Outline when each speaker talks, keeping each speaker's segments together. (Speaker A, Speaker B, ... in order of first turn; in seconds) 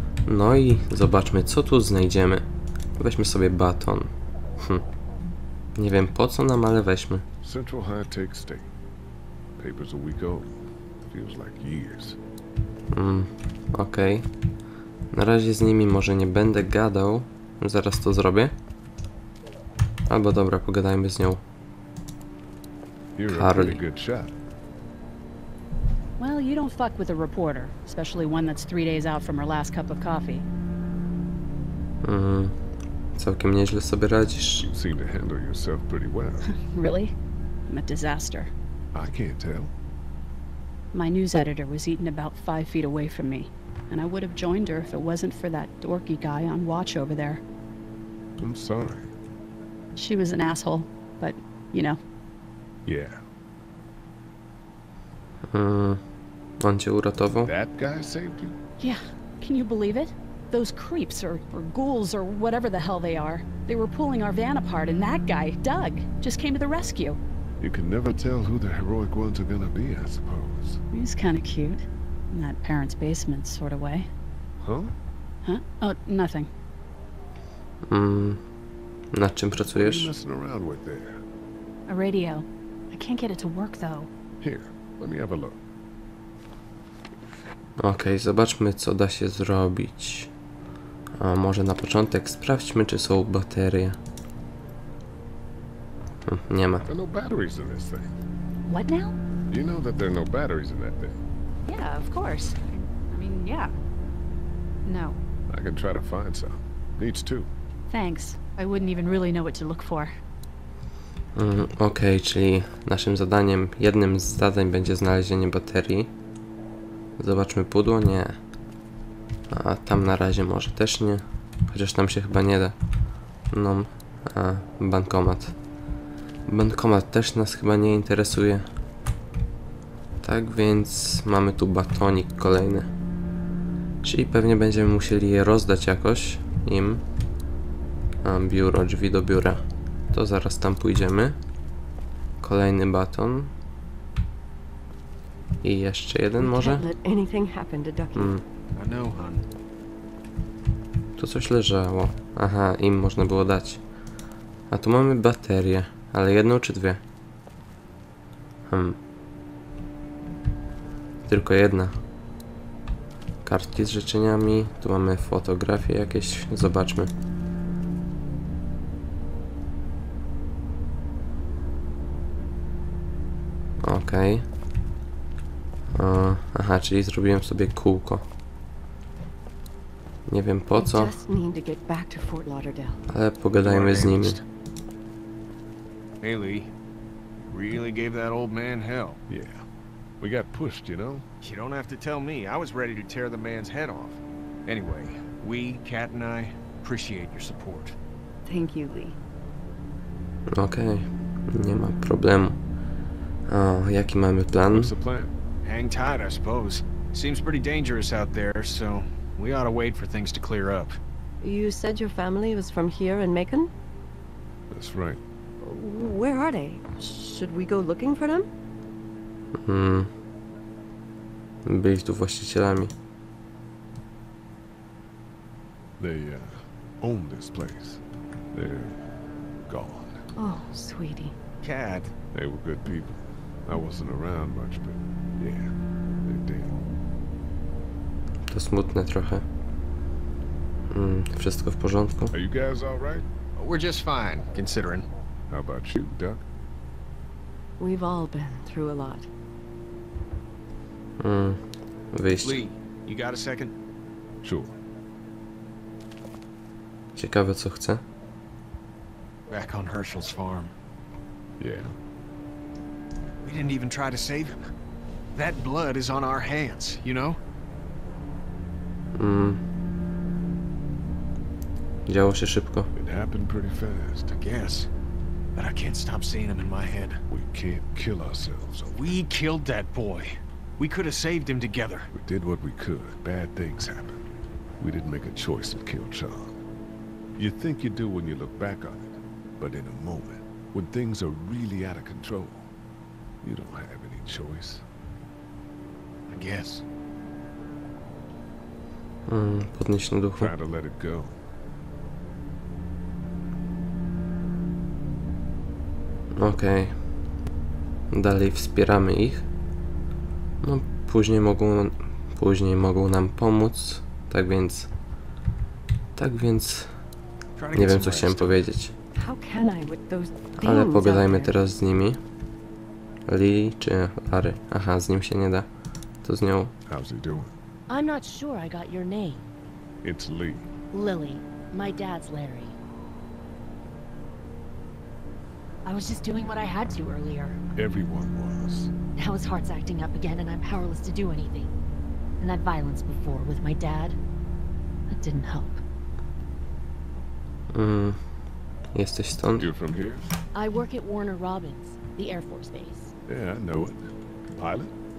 Speaker A: 0.3-2.4, 3.0-4.8, 5.8-7.2, 12.9-14.3, 15.1-18.5, 20.1-21.4, 23.3-23.8, 32.0-32.5, 33.1-34.7, 55.5-56.0, 56.6-57.5, 77.9-78.4, 79.1-80.1, 87.8-90.3, 91.2-94.0, 96.3-96.9, 111.3-116.1, 117.2-118.3, 119.5-122.7, 123.5-125.5, 126.5-128.7, 130.2-132.9, 134.0-137.0, 138.2-141.4, 142.4-143.5, 145.6-146.9, 148.1-148.4, 151.2-153.8, 154.7-157.0, 158.7-159.0, 161.2-161.9, 163.4-167.1, 173.8-174.4, 175.9-178.2, 180.3-181.2, 183.1-184.4, 200.6-202.6, 203.5-204.9, 219.6-220.1, 221.7-222.9, 238.5-239.4, 240.9-242.3, 251.2-251.6, 252.1-252.6, 257.1-258.0, 269.1-269.6, 272.1-272.9, 299.3-300.5, 306.4-307.0, 308.1-309.4, 310.6-314.9, 316.1-316.9, 317.7-318.9, 320.6-322.2, 323.3-325.7, 326.2-326.7, 347.7-348.2, 348.9-349.7
Speaker B: 7.4-8.7, 9.6-12.2, 23.1-24.3, 34.6-36.5, 38.9-39.7, 48.4-49.1, 52.9-53.2, 57.4-58.6, 67.6-70.8, 74.6-74.9, 79.8-81.2, 84.4-85.6, 96.8-98.1, 99.5-101.2, 105.5-107.5, 189.3-189.6, 190.2-191.2, 204.7-205.3, 214.7-215.2, 226.0-228.0, 228.5-229.1, 229.7-230.2, 232.3-235.7, 236.2-236.8, 242.3-243.2, 245.5-246.4, 254.4-254.7, 261.6-261.9, 272.9-274.3, 277.3-279.1, 282.1-284.2, 284.8-286.6, 287.4-292.7, 293.4-294.9, 300.4-301.4, 326.9-327.5, 330.0-330.7, 337.8-338.9, 349.5-350.3, 353.3-354.9
Speaker C: 26.2-30.4, 36.5-37.1, 37.7-38.5, 40.9-47.4, 49.9-52.0, 58.8-67.2, 70.9-74.1, 75.4-76.5, 81.9-84.1, 98.7-99.2, 101.7-103.7, 104.8-105.2, 107.9-110.1
Speaker D: 146.3-148.4, 180.7-183.0, 198.4-199.2, 211.4-213.7, 215.6-218.5, 230.3-231.3, 247.8-249.3, 319.1-321.5
Speaker E: 148.7-149.4, 183.6-184.4, 186.2-186.7, 187.4-189.2, 191.4-197.9, 205.6-211.0, 231.6-232.1, 243.6-245.1, 252.4-253.7, 259.5-260.7, 263.4-264.6, 265.3-267.4, 274.3-274.9, 275.6-277.2, 278.9-282.1, 296.3-296.8, 317.6-318.7
Speaker F: 327.9-329.5, 330.9-332.7, 335.8-337.6, 339.1-341.7, 342.4-344.2, 345.1-345.8, 350.5-353.1